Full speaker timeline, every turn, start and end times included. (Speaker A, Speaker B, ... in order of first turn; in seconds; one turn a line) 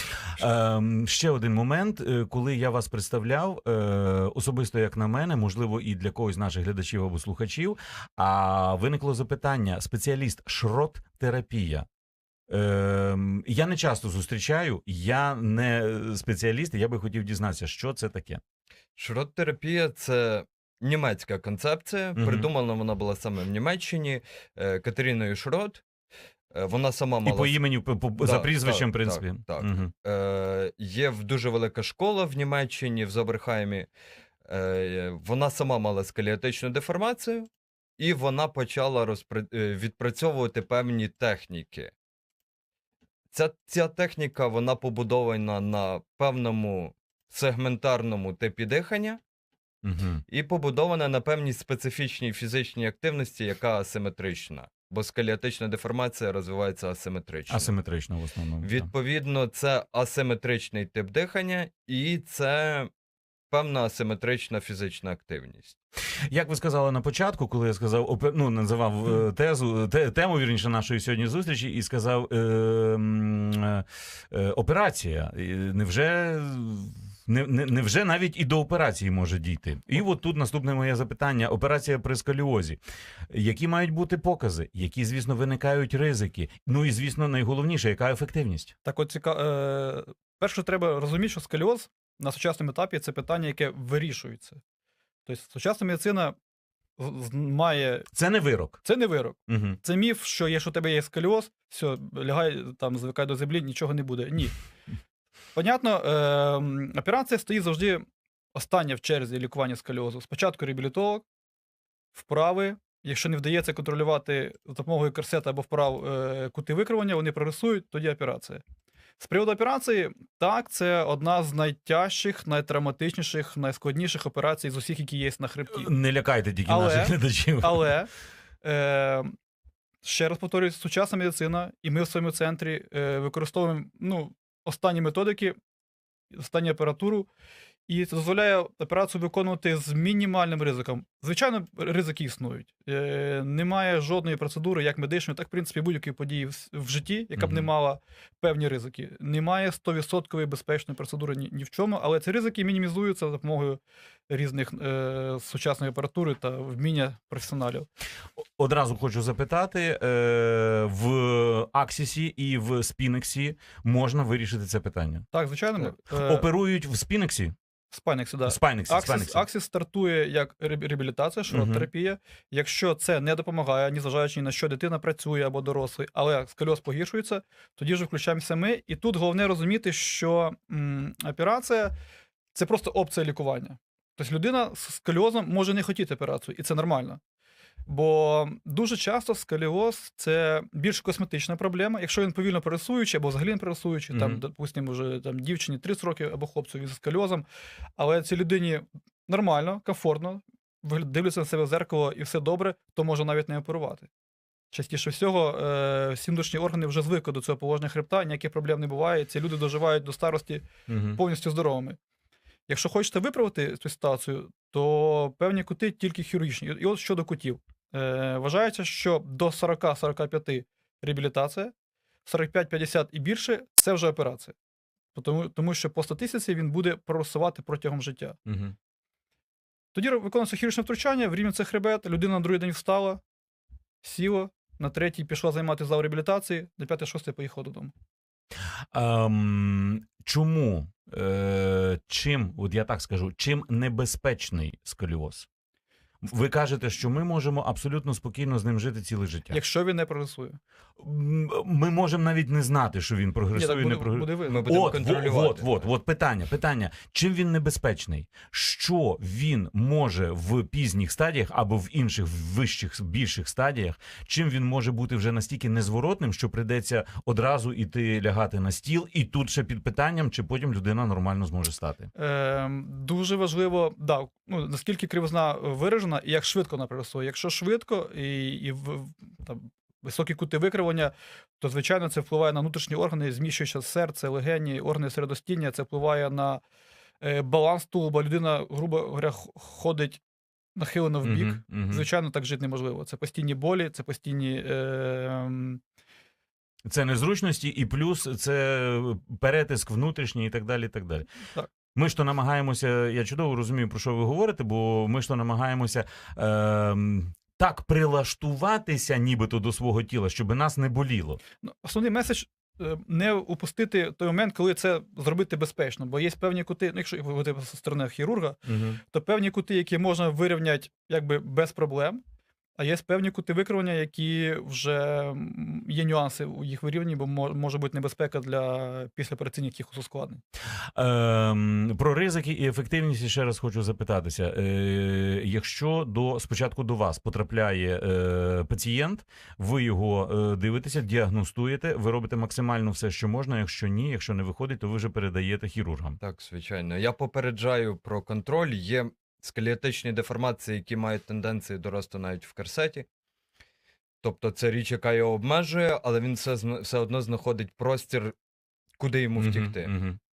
Speaker A: 0.3-11.9
Speaker A: 12.5-18.4
Speaker B: 18.9-25.8
Speaker A: 22.1-22.5
Speaker B: 26.5-27.6
Speaker A: 27.2-29.9
Speaker B: 28.2-33.9
Speaker B: 34.4-41.9
Speaker B: 43.3-49.2
Speaker A: 49.8-50.2
Speaker B: 50.3-57.7
Speaker A: 57.5-58.9
Speaker B: 58.6-62.9
Speaker B: 63.5-65.8
Speaker A: 66.3-82.8
Speaker A: 83.3-88.7
Speaker C: 88.8-94.6
Speaker C: 95.2-96.3
Speaker C: 97.0-98.1
Speaker A: 98.1-98.8
Speaker C: 98.8-104.5
Speaker A: 99.5-99.8
Speaker C: 105.5-111.2
Speaker C: 112.1-118.6
Speaker C: 119.2-125.9
Speaker A: 125.7-127.9
Speaker C: 126.7-128.1
Speaker C: 128.6-129.3
Speaker C: 130.0-135.6
Speaker C: 136.3-137.3
Speaker C: 137.9-157.9
Speaker A: 147.3-147.7
Speaker A: 158.4-165.2
Speaker C: 165.3-166.5
Speaker A: 166.1-167.5
Speaker C: 167.9-181.9
Speaker A: 168.4-169.4
Speaker A: 171.5-171.9
Speaker C: 182.5-187.2
Speaker C: 187.8-197.4
Speaker A: 194.1-194.4
Speaker C: 198.0-204.1
Speaker C: 204.7-212.0
Speaker A: 210.9-211.2
Speaker C: 212.7-221.7
Speaker C: 222.2-224.5
Speaker C: 225.1-228.4
Speaker A: 228.4-228.7
Speaker C: 229.9-233.2
Speaker C: 234.0-237.9
Speaker A: 238.9-245.5
Speaker A: 246.2-249.6
Speaker C: 249.5-250.6
Speaker A: 251.0-272.1
Speaker C: 253.5-254.7
Speaker B: 254.4-255.9
Speaker C: 272.1-286.6
Speaker C: 287.2-290.2
Speaker C: 290.8-295.8
Speaker A: 291.2-292.1
Speaker A: 296.9-301.3
Speaker A: 301.9-311.4
Speaker C: 311.6-322.2
Speaker A: 318.7-319.0
Speaker C: 322.8-330.4
Speaker A: 330.9-346.2
Speaker B: 346.2-353.1
Speaker B: 354.2-358.4
Speaker B: 359.0-359.9
Speaker A: 359.4-360.2